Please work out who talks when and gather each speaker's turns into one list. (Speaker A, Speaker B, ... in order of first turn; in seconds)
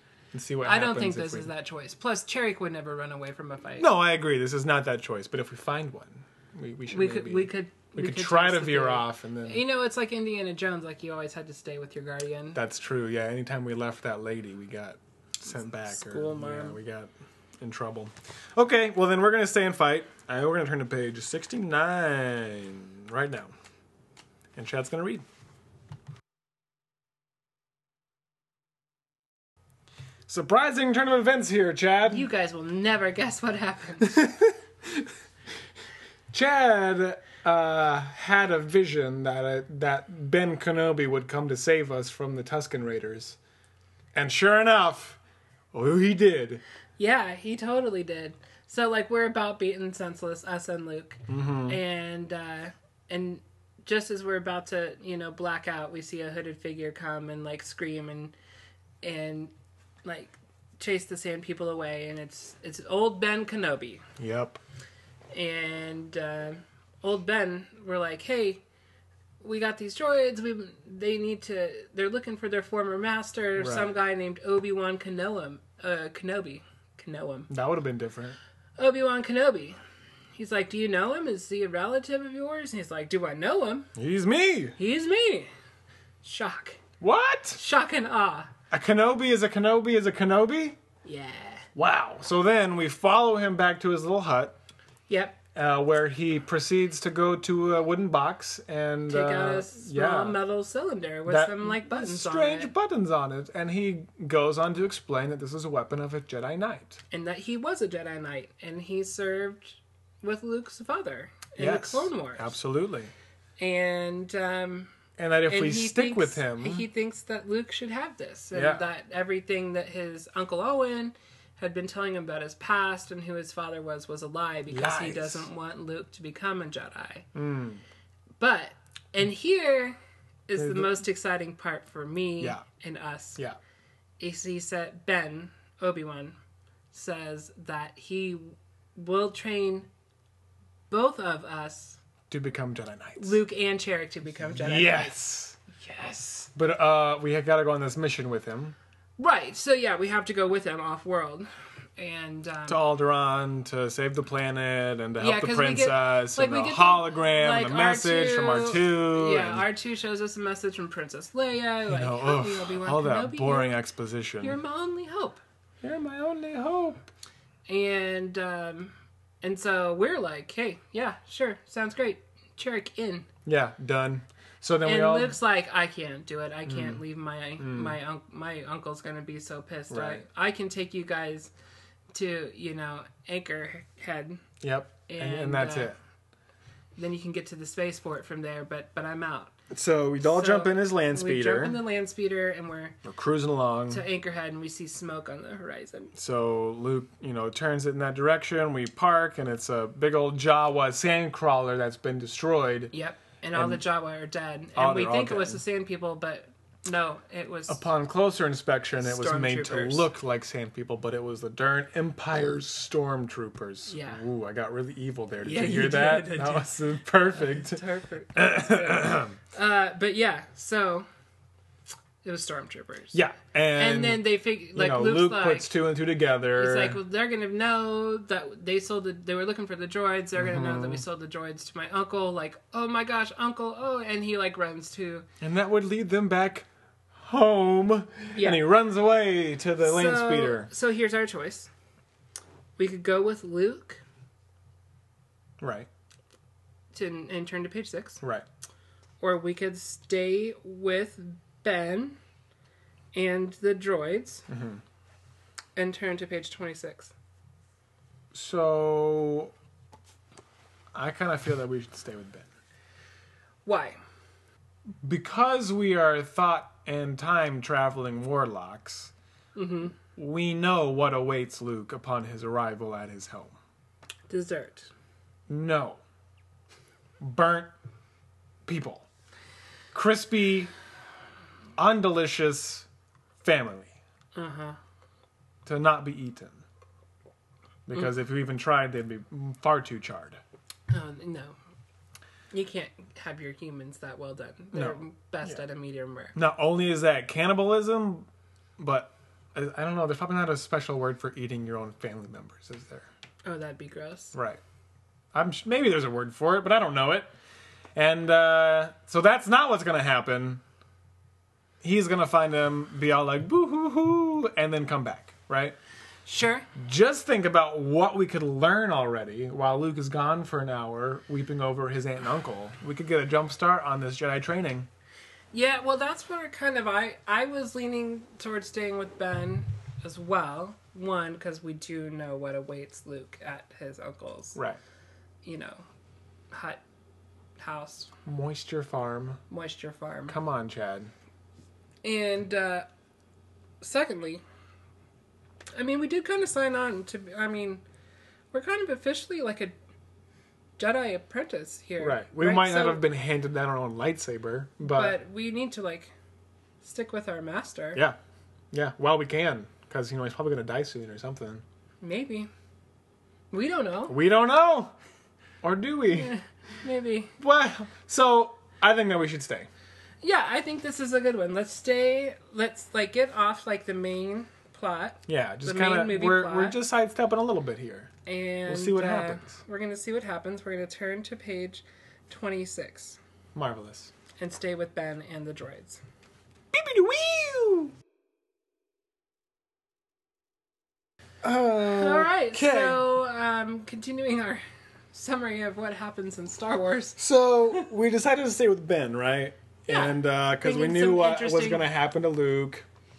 Speaker A: 0.3-1.5, 3.8-9.6, 12.5-23.5, 24.6-25.2, 30.3-32.3, 34.0-35.1, 36.3-43.4, 44.1-45.2, 45.7-46.6, 51.3-51.8, 64.2-64.6, 73.6-74.0, 77.5-78.4, 84.0-84.8, 87.0-87.6, 88.7-90.8, 91.8-94.5, 95.5-100.4, 101.3-107.0, 111.6-113.1, 115.2-116.9, 118.5-118.8, 124.7-125.5, 127.3-127.8, 130.6-131.0, 142.3-143.4, 144.5-145.6, 146.5-148.8, 152.7-159.7, 161.9-164.6, 165.8-167.1, 173.5-175.4, 176.6-177.0, 177.6-178.0, 179.9-180.2, 184.6-186.0, 189.7-191.8, 193.0-194.0, 196.1-202.9, 203.5-203.8, 204.8-205.6, 207.7-217.8, 218.3-219.4, 223.1-227.0, 230.4-231.0, 235.4-240.7, 245.6-245.9, 248.2-248.5, 254.5-254.8, 258.3-259.5, 260.9-262.5, 265.0-269.1, 270.1-273.6, 275.5-276.0, 277.2-277.7, 278.6-279.1, 279.9-280.7, 281.8-282.9, 283.4-283.9, 285.6-286.6, 287.9-290.4, 294.7-295.6, 296.4-303.1, 304.3-304.6, 305.3-307.3, 307.9-310.6, 311.8-315.8, 316.8-324.9, 338.2-339.4, 340.3-341.1, 352.0-355.2, 358.7-361.6, 364.1-364.9, 365.6-366.3, 367.4-369.7, 375.3-378.1, 378.7-379.5, 383.5-384.1, 386.7-387.9, 391.4-393.1, 397.2-402.9
Speaker B: 0.6-3.9, 6.9-12.6, 15.9-16.8, 32.1-34.3, 47.0-58.3, 59.0-59.5, 60.0-64.0, 65.3-68.6, 69.4-77.5, 78.8-79.8, 80.4-83.9, 84.8-85.5, 86.2-86.8, 87.5-88.5, 91.0-91.7, 95.1-95.4, 99.1-102.7, 107.1-112.5, 113.6-114.9, 115.5-127.3, 128.4-130.0, 130.5-133.4, 134.2-136.4, 136.9-139.9, 140.9-142.0, 143.2-145.1, 145.7-146.5, 149.2-152.8, 155.2-163.7, 164.4-165.4, 167.7-173.3, 174.8-181.5, 182.1-184.4, 185.1-185.9, 187.0-189.5, 190.2-193.0, 193.9-196.1, 202.9-207.8, 209.0-210.1, 213.9-214.2, 215.4-221.1, 222.2-223.2, 223.7-225.7, 226.5-235.3, 238.3-238.6, 239.8-241.7, 242.8-244.0, 246.9-248.2, 249.2-252.2, 253.1-254.5, 255.8-257.1, 263.6-264.0, 269.5-269.9, 274.3-274.9, 284.4-284.8, 290.9-291.6, 292.5-296.4, 303.4-304.4, 316.2-316.7, 325.5-334.6, 335.4-335.8, 336.5-336.8, 337.6-338.1, 339.5-340.4, 342.0-342.9, 343.8-344.4, 345.8-347.8, 348.5-349.7, 350.8-353.0, 354.8-356.1, 356.8-358.0, 362.0-362.5, 363.5-364.1, 366.1-367.3, 370.2-376.8, 378.2-383.2, 384.4-386.0, 391.9-394.6, 395.1-397.2, 399.9-401.8